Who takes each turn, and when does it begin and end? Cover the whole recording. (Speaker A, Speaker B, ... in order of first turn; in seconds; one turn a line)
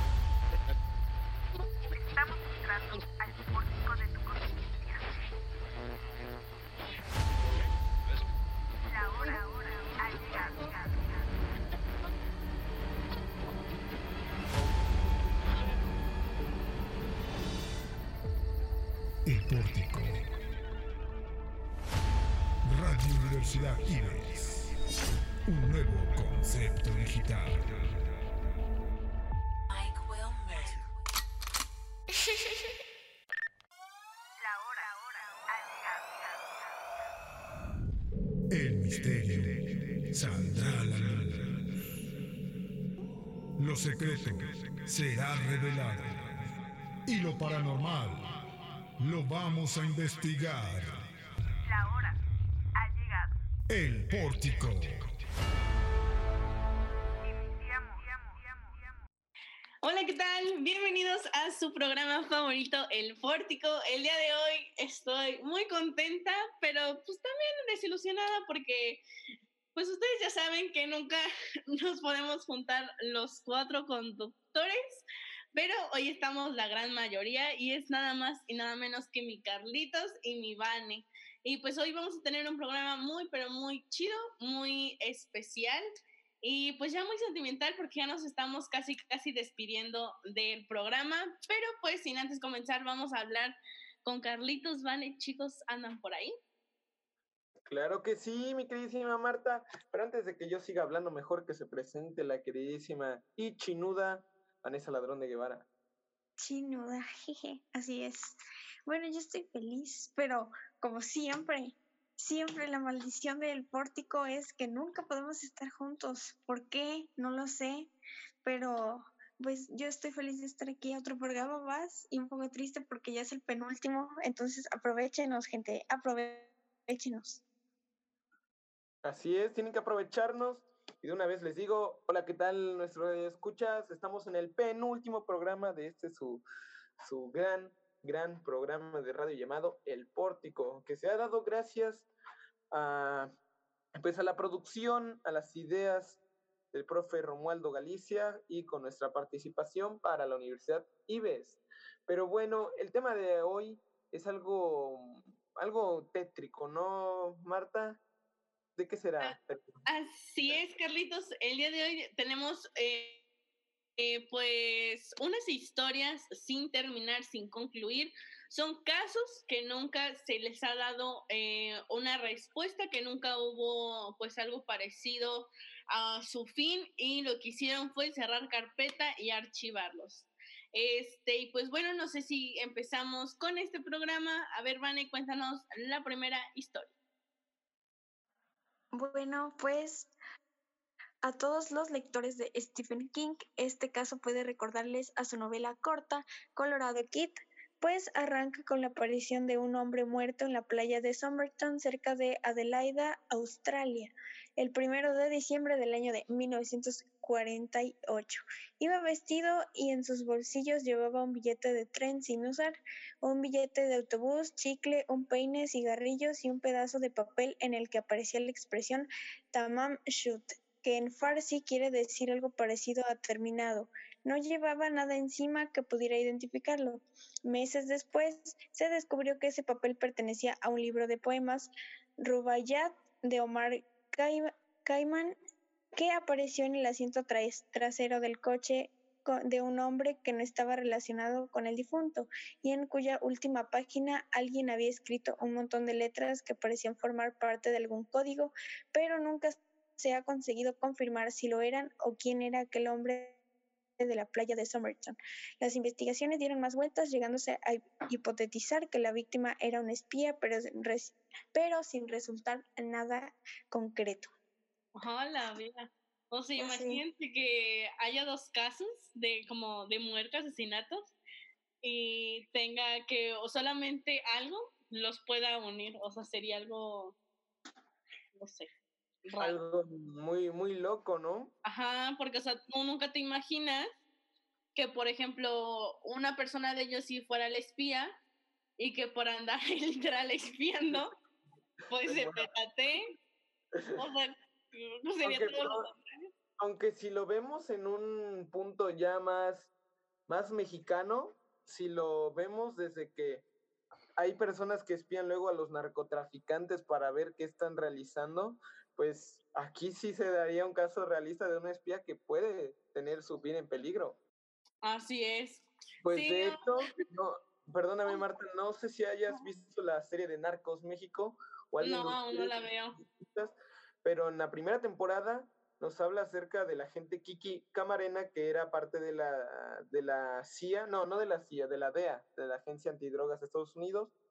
Speaker A: 1.9-5.0
Speaker A: 8.9-11.3
Speaker B: 19.2-20.2
Speaker B: 22.6-24.7
Speaker B: 25.5-27.9
Speaker A: 30.4-30.8
Speaker A: 34.4-36.5
Speaker B: 38.5-41.8
Speaker B: 43.6-46.5
Speaker B: 47.0-48.4
Speaker B: 49.0-51.1
Speaker A: 51.6-52.2
Speaker A: 52.8-53.3
Speaker B: 53.7-55.1
Speaker A: 57.2-58.6
Speaker C: 59.8-69.0
Speaker C: 69.7-85.8
Speaker C: 86.4-96.3
Speaker D: 97.7-105.7
Speaker E: 106.4-117.9
Speaker E: 118.4-127.4
Speaker D: 129.0-136.4
Speaker D: 137.0-142.1
Speaker D: 142.7-143.3
Speaker D: 144.0-146.2
Speaker D: 146.7-158.0
Speaker D: 158.8-159.7
Speaker C: 159.2-163.2
Speaker C: 164.0-186.9
Speaker E: 188.9-190.1
Speaker E: 191.2-231.7
Speaker E: 232.2-235.3
Speaker E: 235.9-253.4
Speaker E: 254.0-264.3
Speaker C: 264.9-271.1
Speaker E: 266.6-267.0
Speaker C: 271.8-277.1
Speaker C: 278.3-278.7
Speaker C: 279.2-279.6
Speaker D: 279.4-281.5
Speaker C: 281.6-283.9
Speaker C: 284.7-288.1
Speaker C: 288.8-291.1
Speaker C: 291.9-293.1
Speaker D: 292.0-292.5
Speaker C: 293.9-296.3
Speaker D: 295.2-295.9
Speaker D: 296.6-299.7
Speaker D: 300.3-303.4
Speaker D: 304.2-314.2
Speaker C: 314.8-316.9
Speaker D: 316.0-334.1
Speaker C: 321.8-323.0